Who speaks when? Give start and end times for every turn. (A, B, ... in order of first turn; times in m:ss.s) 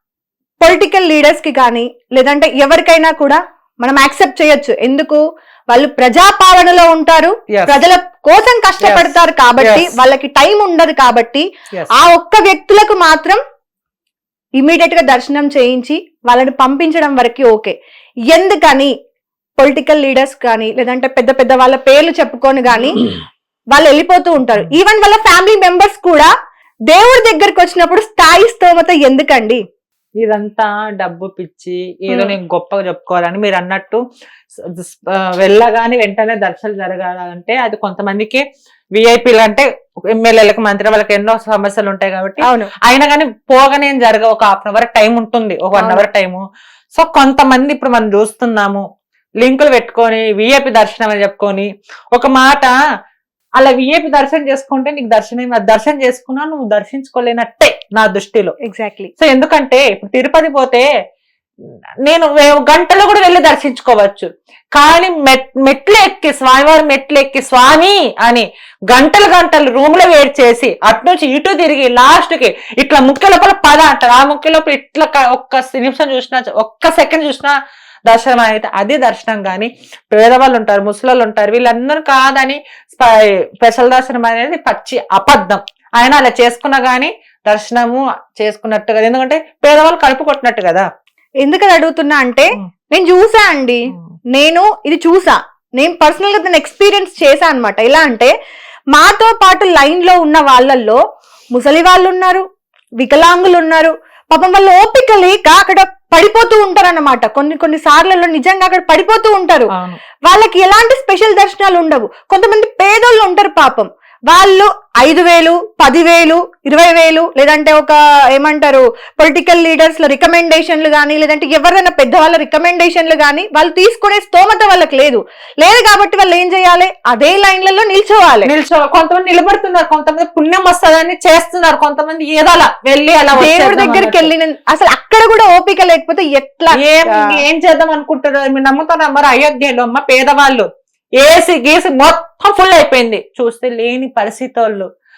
0:00.6-0:05.2 A
0:05.7-0:11.4 A
0:07.5-0:07.8 B
0:08.8-0:09.9 B
0:11.9-0:13.4 A
0:14.6-0:17.7 A
0:18.3-0:18.9 A
0:19.6-0:23.0 A
0:23.7-0:26.3 A
0:26.9-0:29.6 A
0:30.2-0:34.0 B
0:32.1-0:32.3 A
0:34.7-0:38.4 B
0:39.0-0:46.4 B
0:42.4-0:42.7 A
0:45.8-0:46.0 A
0:47.0-0:48.8 B
0:49.4-0:52.7 B
0:53.6-0:58.5 B
0:58.7-0:59.1 A
0:59.2-1:00.8 B
1:02.0-1:17.5 B
1:18.1-1:30.8 B
1:31.4-1:33.8 A
1:34.3-1:38.3 A
1:38.9-1:41.0 A
1:41.5-1:42.4 A
1:43.0-1:49.7 A
1:50.2-2:08.5 A
2:08.4-2:14.3 B
2:13.4-2:17.4 A
2:16.8-2:20.7 B
2:21.2-2:24.9 B